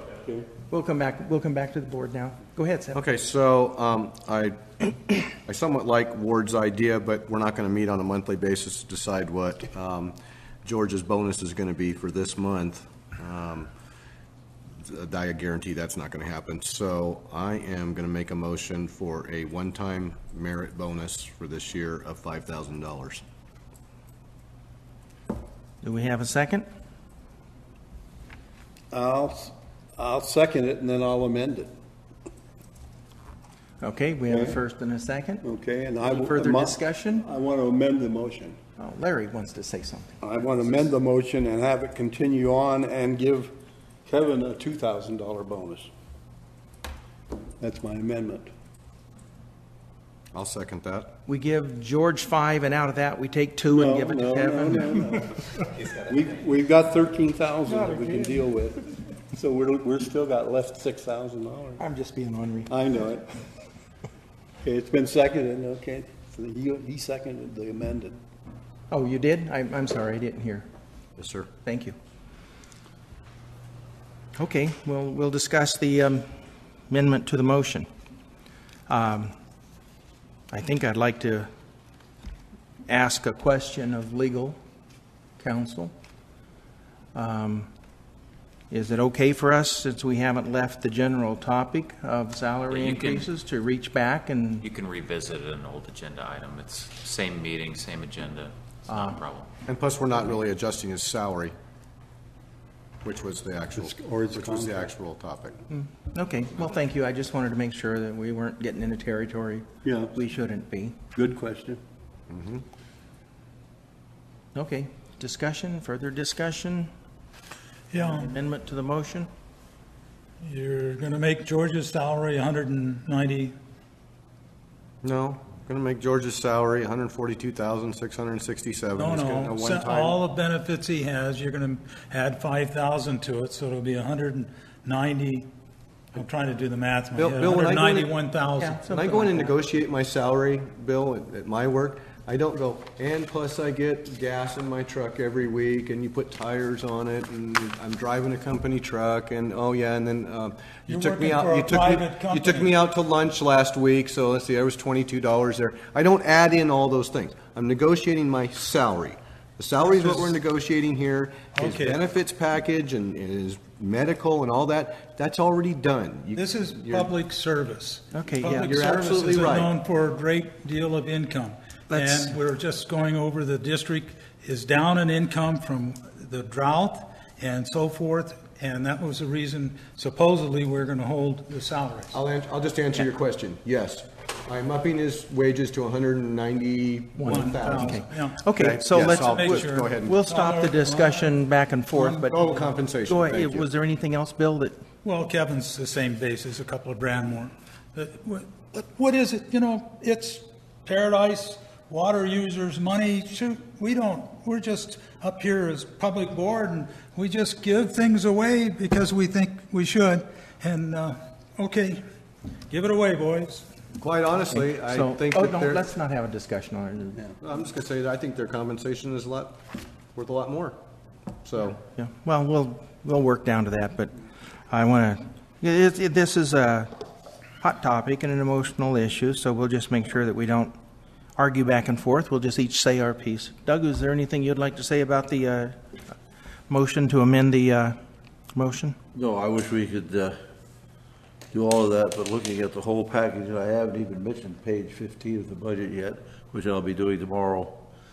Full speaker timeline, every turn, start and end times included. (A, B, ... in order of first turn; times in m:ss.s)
0:00.7-0:03.0 A
0:02.9-0:13.7 B
0:14.8-0:23.2 B
0:25.8-0:26.7 A
0:28.9-0:31.7 C
0:33.8-0:35.4 A
0:34.3-0:34.6 C
0:35.4-0:38.6 C
0:36.0-0:37.2 A
0:38.8-0:40.2 A
0:40.2-0:43.5 C
0:44.0-0:45.9 C
0:47.6-0:48.5 C
0:50.3-0:51.1 B
0:51.3-0:55.1 A
0:53.7-1:01.8 C
0:57.7-0:58.3 A
1:01.8-1:02.7 A
1:02.7-1:03.2 C
1:04.6-1:08.2 C
1:08.9-1:10.7 A
1:11.2-1:11.5 B
1:11.6-1:12.0 A
1:14.4-1:16.3 A
1:16.9-1:17.9 A
1:18.9-1:19.3 A
1:20.5-1:21.5 A
1:22.9-1:24.6 A
1:25.4-1:25.9 A
1:27.2-1:27.7 A
1:28.7-1:34.7 A
1:32.7-1:33.3 D
1:34.6-1:39.5 D
1:38.9-1:39.2 A
1:39.7-1:41.5 B
1:43.0-1:45.6 B
1:43.8-1:44.9 C
1:45.7-1:51.0 A
1:49.8-1:50.1 C
1:51.1-1:51.8 C
1:52.3-1:52.6 B
1:54.5-1:56.9 A
1:57.9-1:58.3 E
1:58.0-1:59.3 A
2:00.4-2:03.6 E
2:05.0-2:10.2 B
2:09.0-2:15.5 E
2:16.1-2:18.9 E
2:17.2-2:18.1 B
2:18.6-2:19.5 A
2:18.9-2:47.1 B
2:30.9-2:32.7 E
2:39.9-2:40.2 E
2:41.6-2:42.0 E
2:46.4-3:02.2 E
2:48.1-2:48.8 A
2:48.4-2:49.7 B
2:51.9-2:52.4 A
3:02.1-3:08.0 B
3:07.2-3:12.4 A
3:07.2-3:11.4 E
3:08.6-3:10.1 B
3:11.9-3:12.6 E
3:12.3-3:13.7 B
3:13.1-3:14.8 A
3:15.0-3:32.0 E
3:32.7-3:33.7 E
3:34.0-3:35.8 B
3:34.6-3:37.2 A
3:37.4-3:39.6 B
3:40.1-3:40.8 B
3:41.4-3:41.8 B
3:41.9-3:44.1 A
3:44.7-3:46.9 A
3:47.6-3:50.8 A
3:51.4-3:55.8 A
3:56.7-3:58.0 A
3:58.5-3:59.0 A
3:59.1-4:00.4 F
4:01.5-4:07.8 F